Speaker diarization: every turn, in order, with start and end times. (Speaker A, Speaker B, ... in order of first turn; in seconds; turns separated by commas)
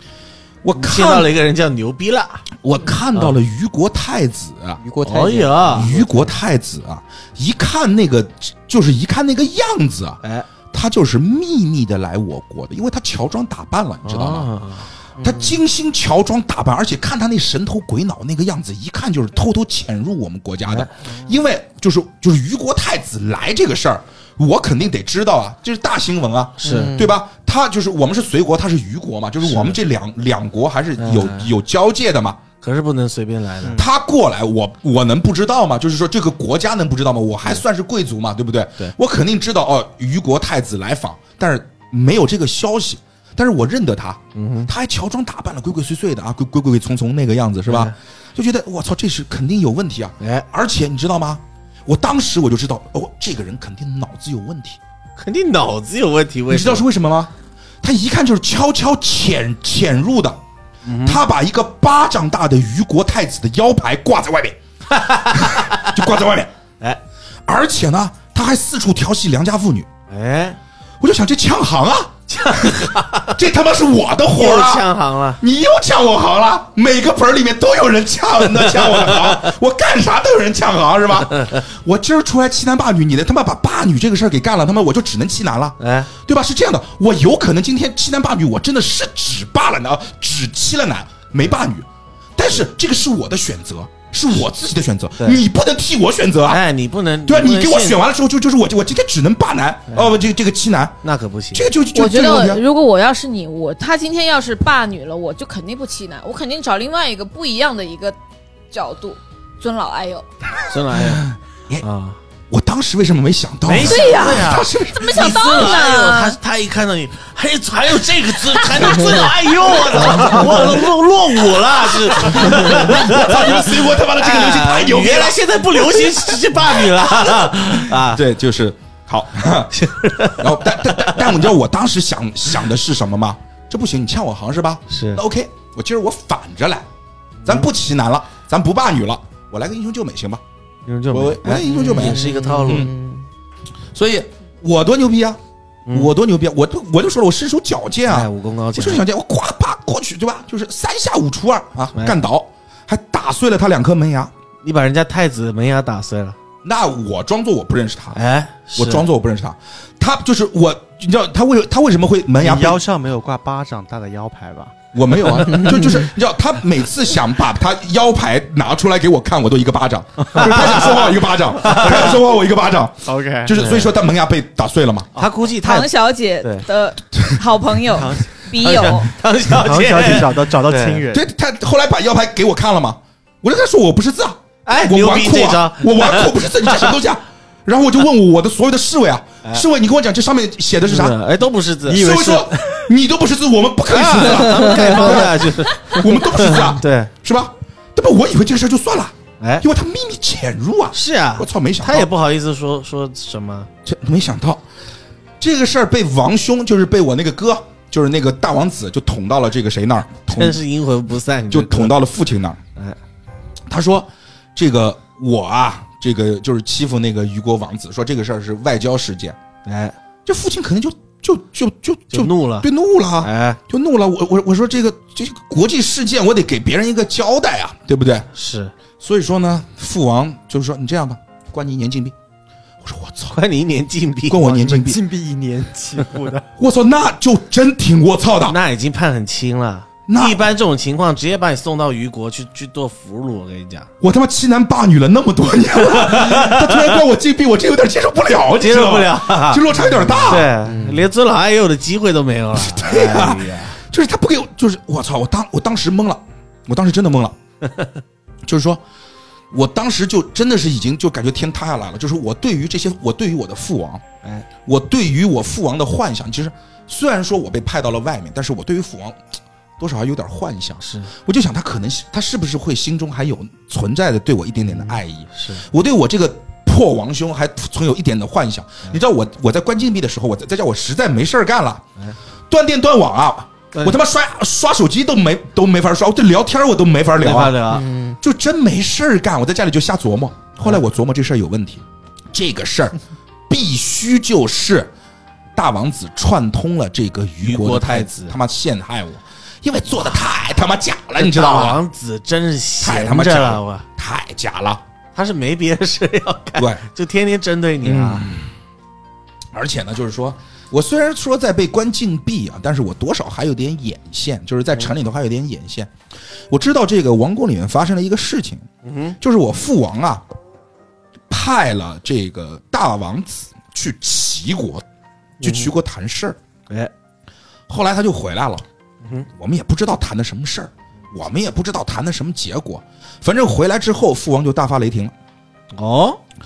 Speaker A: 0.6-1.4, Speaker B: 0.8-2.5, Speaker A: 2.6-4.8, Speaker C: 4.8-6.1, Speaker B: 5.0-6.0, Speaker A: 5.7-14.5, Speaker B: 14.0-15.5, Speaker A: 15.2-32.4, Speaker B: 20.7-20.9, Speaker B: 26.6-27.0, Speaker C: 26.6-27.1, Speaker B: 29.4-29.8, Speaker B: 31.0-31.5, Speaker B: 32.6-33.8, Speaker D: 33.6-33.9, Speaker A: 33.7-54.8, Speaker B: 44.4-44.7, Speaker B: 47.7-48.0, Speaker B: 50.2-50.5, Speaker B: 55.2-56.9, Speaker A: 56.5-60.4, Speaker B: 60.9-61.2, Speaker A: 61.0-66.5, Speaker B: 64.9-66.2, Speaker A: 67.5-69.9, Speaker B: 70.1-70.6, Speaker A: 71.0-96.6, Speaker B: 72.3-73.4, Speaker B: 74.3-75.4, Speaker B: 78.5-79.4, Speaker B: 81.3-81.6, Speaker B: 85.8-86.1, Speaker B: 96.5-98.0, Speaker A: 97.2-101.0, Speaker B: 99.9-100.2, Speaker B: 101.0-101.7, Speaker A: 101.5-102.6, Speaker E: 101.9-108.2, Speaker E: 108.7-110.2, Speaker B: 110.7-111.3, Speaker A: 110.9-111.8, Speaker B: 111.8-112.2, Speaker A: 112.5-115.8, Speaker B: 113.7-128.2, Speaker E: 113.8-116.4, Speaker A: 119.9-120.7, Speaker A: 122.0-129.8, Speaker B: 129.7-131.5, Speaker A: 130.3-136.9, Speaker B: 134.9-135.2, Speaker B: 137.4-137.7, Speaker A: 137.4-140.4, Speaker B: 140.9-142.9, Speaker A: 141.1-142.9, Speaker C: 141.7-143.2, Speaker A: 143.9-154.3, Speaker B: 145.9-146.1, Speaker B: 148.1-149.0, Speaker B: 151.9-152.2, Speaker B: 154.6-156.4, Speaker A: 156.6-158.2, Speaker B: 158.1-159.1, Speaker A: 158.8-162.8, Speaker D: 162.4-164.8, Speaker A: 164.9-175.1, Speaker C: 165.5-166.1, Speaker B: 170.3-172.2, Speaker D: 173.1-173.6, Speaker B: 173.5-173.9, Speaker B: 175.2-175.9, Speaker E: 175.6-179.1, Speaker B: 176.4-176.7, Speaker A: 177.2-177.4, Speaker D: 178.0-178.3, Speaker B: 178.5-181.1, Speaker D: 179.5-181.3, Speaker A: 181.1-191.2, Speaker B: 184.7-187.0, Speaker B: 190.9-192.6, Speaker A: 191.9-202.1, Speaker B: 193.9-197.1, Speaker C: 194.8-195.1, Speaker B: 199.4-199.7, Speaker B: 200.9-203.7, Speaker A: 203.8-204.7, Speaker A: 205.4-210.6, Speaker B: 210.3-212.0, Speaker A: 211.5-212.6, Speaker A: 213.7-219.4, Speaker B: 219.7-220.0, Speaker A: 220.3-228.3, Speaker B: 222.1-223.6, Speaker B: 228.3-228.7, Speaker A: 229.0-232.2, Speaker A: 232.8-233.4, Speaker B: 233.3-234.5, Speaker A: 234.3-235.0, Speaker D: 234.4-236.5, Speaker A: 236.6-238.6, Speaker B: 238.5-243.9, Speaker A: 240.1-240.5, Speaker A: 244.0-250.5, Speaker B: 245.8-247.0, Speaker B: 248.6-249.7, Speaker B: 250.2-253.8, Speaker C: 250.5-251.1, Speaker A: 252.5-257.4, Speaker B: 257.6-258.0, Speaker A: 258.4-258.8, Speaker A: 259.5-264.0, Speaker A: 264.6-269.2, Speaker A: 269.8-281.9, Speaker B: 270.8-271.1, Speaker B: 274.7-275.6, Speaker A: 282.5-293.0, Speaker B: 283.7-284.0, Speaker B: 287.2-287.9, Speaker C: 287.8-288.2, Speaker A: 293.5-294.9, Speaker A: 295.6-301.8, Speaker B: 297.4-298.4, Speaker B: 301.2-303.9, Speaker A: 302.8-304.8, Speaker B: 305.1-308.3, Speaker A: 306.6-306.9, Speaker A: 307.8-308.5, Speaker A: 309.5-315.9, Speaker A: 316.5-318.7, Speaker B: 318.8-319.2, Speaker A: 319.2-320.2, Speaker A: 321.3-324.8, Speaker B: 325.4-325.7, Speaker A: 325.4-326.4, Speaker A: 327.7-328.6, Speaker B: 329.0-329.3, Speaker A: 329.3-335.1, Speaker B: 335.7-336.2